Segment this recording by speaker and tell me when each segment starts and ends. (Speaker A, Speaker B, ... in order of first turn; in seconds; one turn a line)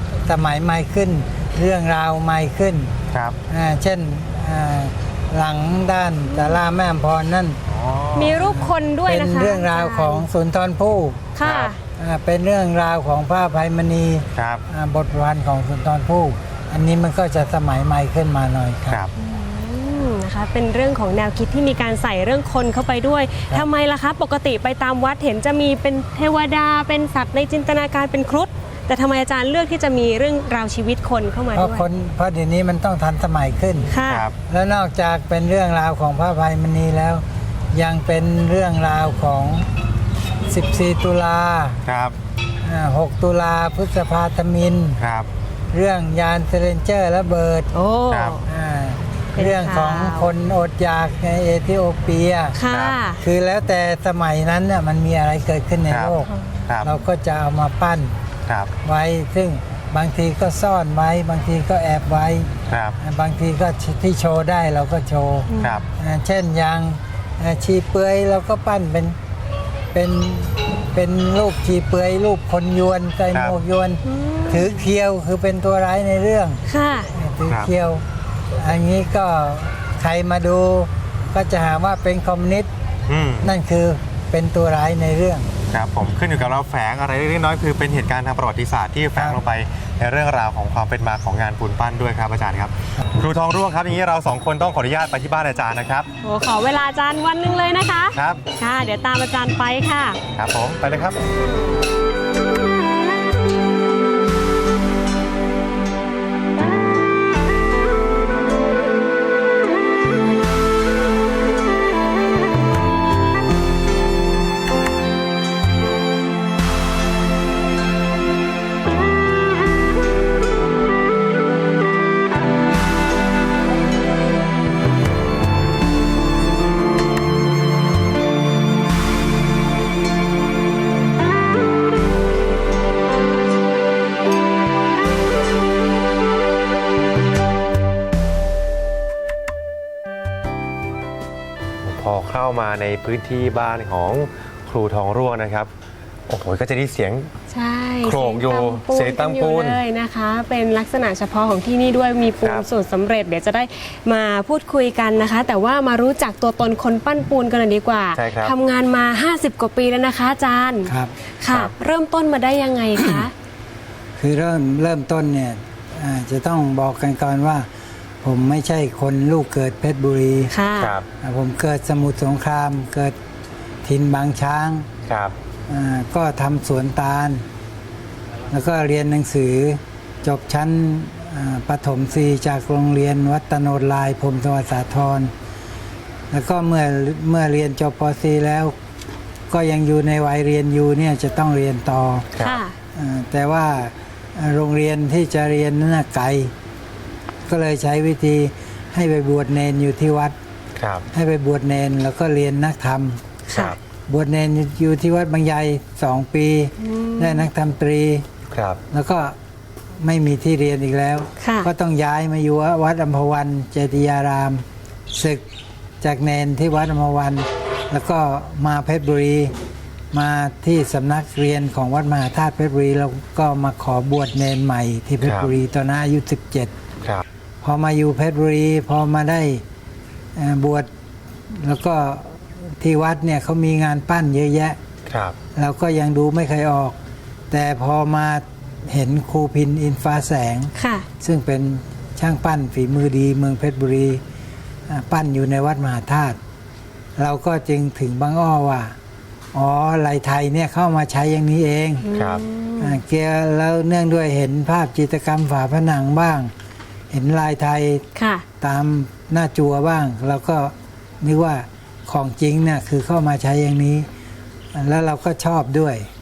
Speaker A: 0.2-2.9
Speaker B: 3.1-3.4
Speaker A: 3.5-7.6
Speaker C: 6.3-6.6
Speaker B: 7.7-8.5
Speaker C: 8.1-10.3
Speaker A: 8.3-11.3
Speaker C: 11.3-11.8
Speaker B: 11.4-11.7
Speaker A: 12.0-19.0
Speaker B: 14.3-14.6
Speaker C: 19.1-31.8
Speaker A: 31.5-33.9
Speaker C: 33.9-34.3
Speaker B: 34.1-34.4
Speaker A: 34.5-39.7
Speaker A: 40.5-41.8
Speaker B: 41.9-42.2
Speaker A: 42.6-45.0
Speaker B: 45.0-45.3
Speaker A: 45.7-47.7
Speaker C: 47.7-48.5
Speaker B: 48.1-48.4
Speaker A: 48.4-52.6
Speaker C: 49.3-50.3
Speaker C: 52.5-53.2
Speaker B: 52.7-53.0
Speaker A: 53.2-56.3
Speaker B: 55.9-56.9
Speaker C: 56.3-56.6
Speaker A: 56.8-58.2
Speaker B: 58.5-58.7
Speaker A: 58.8-69.2
Speaker B: 62.7-63.0
Speaker C: 65.5-65.9
Speaker B: 65.6-65.8
Speaker A: 69.9-78.0
Speaker B: 73.3-73.6
Speaker C: 74.0-74.9
Speaker C: 76.7-77.1
Speaker A: 78.6-82.7
Speaker B: 83.1-83.5
Speaker A: 83.4-85.5
Speaker B: 85.7-96.1
Speaker C: 96.2-100.2
Speaker B: 98.2-98.4
Speaker B: 100.3-101.2
Speaker B: 141.8-145.7
Speaker B: 146.3-147.3
Speaker C: 147.5-163.3
Speaker B: 148.0-149.8
Speaker B: 158.1-158.5
Speaker A: 160.8-161.1
Speaker A: 164.2-167.7
Speaker A: 168.2-170.5
Speaker C: 170.5-170.9
Speaker B: 170.8-171.1
Speaker A: 171.2-173.2
Speaker A: 173.8-174.9
Speaker B: 175.1-175.3
Speaker A: 175.7-177.4
Speaker A: 178.5-185.3
Speaker A: 186.3-188.7
Speaker A: 189.5-192.2
Speaker B: 192.3-192.6
Speaker C: 192.4-192.8
Speaker A: 192.9-196.5
Speaker A: 197.5-200.3
Speaker B: 200.8-201.1
Speaker A: 201.1-203.2
Speaker C: 203.5-203.8
Speaker B: 203.5-203.8
Speaker A: 204.1-208.2
Speaker C: 206.8-207.5
Speaker B: 208.5-208.8
Speaker A: 208.9-209.3
Speaker A: 210.0-215.4
Speaker C: 211.4-211.7
Speaker A: 216.0-219.5
Speaker A: 220.1-226.7
Speaker B: 225.2-225.5
Speaker A: 227.6-229.6
Speaker A: 230.3-230.9
Speaker A: 231.5-234.8
Speaker B: 235.1-235.4
Speaker A: 235.5-237.0
Speaker A: 237.5-244.2
Speaker C: 240.8-241.1
Speaker A: 244.9-246.4
Speaker A: 247.2-248.9
Speaker A: 249.5-252.1
Speaker C: 252.0-253.0
Speaker B: 252.1-252.4
Speaker A: 252.8-256.5
Speaker A: 257.1-258.0
Speaker C: 258.1-258.4
Speaker A: 258.6-264.1
Speaker A: 264.7-266.1